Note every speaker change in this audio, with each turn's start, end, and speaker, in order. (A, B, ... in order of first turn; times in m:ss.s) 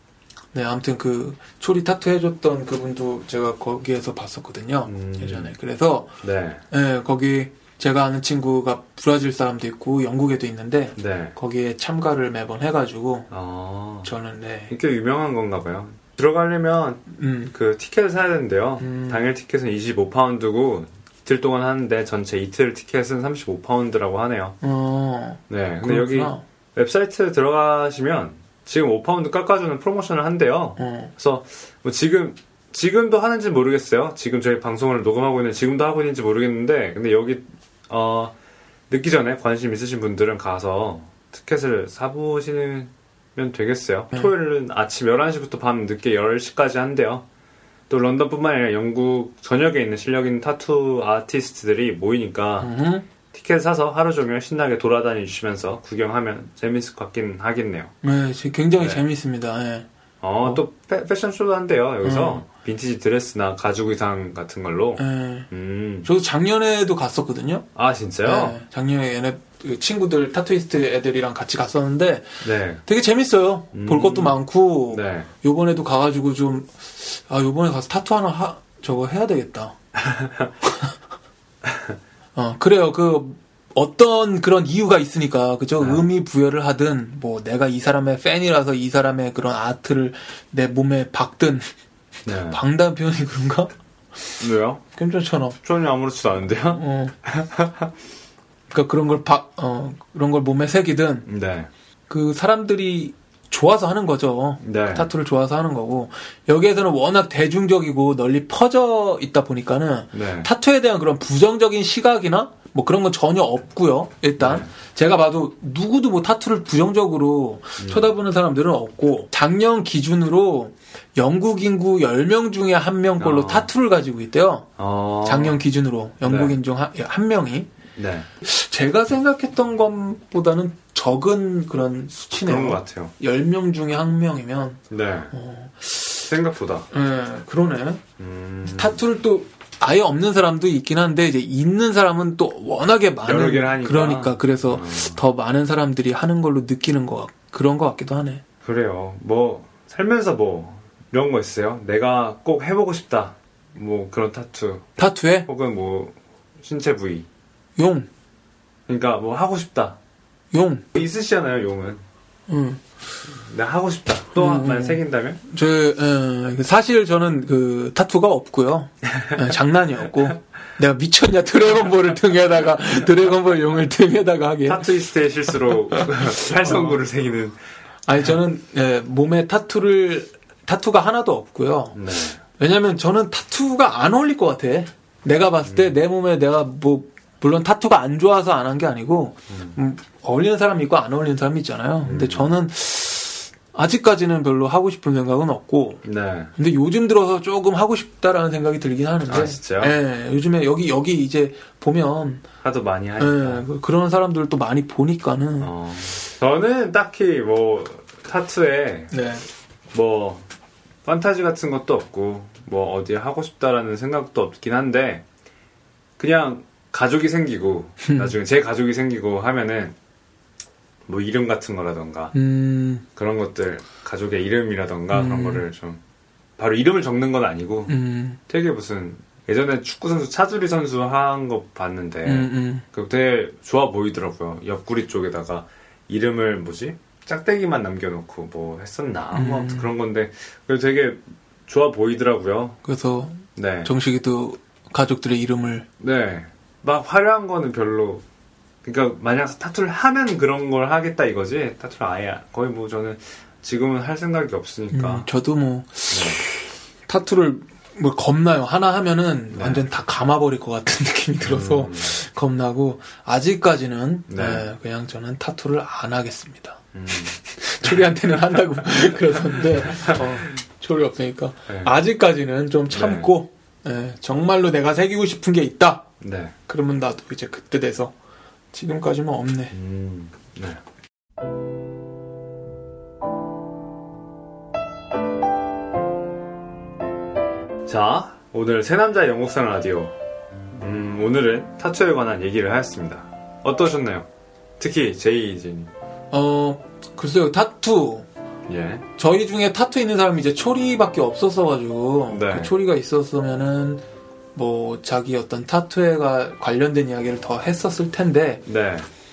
0:00.5-0:06.1 A
0:04.9-0:05.5 B
0:06.2-0:06.6 B
0:06.7-0:13.3 A
0:11.0-0:11.3 B
0:13.3-0:14.1 B
0:14.0-0:14.7 A
0:14.7-0:24.6 B
0:17.1-0:17.5 A
0:18.8-0:19.2 A
0:24.6-0:26.4 A
0:25.5-0:38.3 B
0:30.8-0:31.1 A
0:38.9-0:47.2 B
0:47.9-0:52.7 B
0:52.6-0:53.1 A
0:53.3-0:57.9 B
0:58.0-0:59.9 A
0:58.8-0:59.0 B
1:00.2-1:06.1 B
1:02.0-1:02.4 A
1:05.0-1:05.5 A
1:06.0-1:07.7 A
1:07.7-1:08.6 B
1:08.2-1:19.8 A
1:12.4-1:12.8 B
1:13.7-1:15.3 B
1:22.3-1:31.7 A
1:25.8-1:26.1 B
1:32.2-1:32.6 B
1:32.3-1:33.7 A
1:34.2-1:35.6 A
1:34.4-1:34.8 B
1:35.6-1:37.9 B
1:36.7-1:37.1 A
1:38.7-1:41.3 A
1:41.3-1:41.7 B
1:42.1-2:04.7 A
1:44.6-1:45.1 B
1:50.1-1:50.5 B
1:54.4-1:54.7 B
1:57.8-1:58.1 B
2:03.2-2:03.7 B
2:04.8-2:05.6 B
2:05.2-2:07.7 A
2:06.2-2:06.6 B
2:08.0-2:08.3 B
2:08.4-2:16.3 A
2:12.4-2:13.1 B
2:14.9-2:15.3 B
2:16.2-2:16.9 B
2:16.9-2:18.0 A
2:18.2-2:19.0 B
2:18.6-2:28.4 A
2:23.2-2:25.2 B
2:28.6-2:34.9 B
2:35.0-2:35.5 A
2:35.4-2:37.3 B
2:37.8-2:38.1 A
2:38.9-2:40.0 B
2:40.5-2:40.9 A
2:40.9-2:42.0 B
2:42.5-2:42.8 A
2:43.3-2:45.4 B
2:44.4-2:54.9 A
2:54.6-2:57.6 B
2:56.6-2:57.0 A
2:58.0-3:16.0 A
3:01.9-3:02.4 B
3:05.6-3:06.0 B
3:09.5-3:09.8 B
3:12.0-3:12.6 B
3:16.0-3:16.5 B
3:16.6-3:22.4 A
3:19.3-3:20.0 B
3:22.6-3:23.7 B
3:23.2-3:25.7 A
3:25.6-3:29.2 B
3:29.1-3:29.4 A
3:29.9-3:30.4 B
3:31.0-3:35.2 B
3:36.2-3:39.9 B
3:38.0-3:38.3 A
3:41.1-3:42.3 B
3:42.3-3:43.0 A
3:43.2-3:46.0 B
3:45.1-3:45.6 A
3:46.6-4:02.8 B
3:47.9-3:48.4 A
3:52.2-3:52.8 A
3:59.3-3:59.9 A
4:02.8-4:05.9 A
4:03.6-4:03.9 B
4:06.0-4:08.2 B
4:08.8-4:15.3 B
4:14.9-4:26.8 A
4:16.1-4:16.4 B
4:19.5-4:19.8 B
4:21.4-4:22.1 B
4:24.3-4:24.6 B
4:26.9-4:27.4 B
4:27.4-4:36.1 A
4:31.7-4:32.0 B
4:32.9-4:33.3 B
4:36.2-4:36.5 B
4:36.7-4:38.1 A
4:38.7-4:39.8 A
4:39.7-4:40.8 B
4:47.8-4:50.1 B
4:50.7-4:54.3 B
4:54.8-4:55.9 B
4:56.3-4:58.3 A
4:58.7-4:59.0 B
4:59.2-5:04.0 A
5:02.3-5:02.7 B
5:04.5-5:08.6 A
5:08.6-5:09.1 B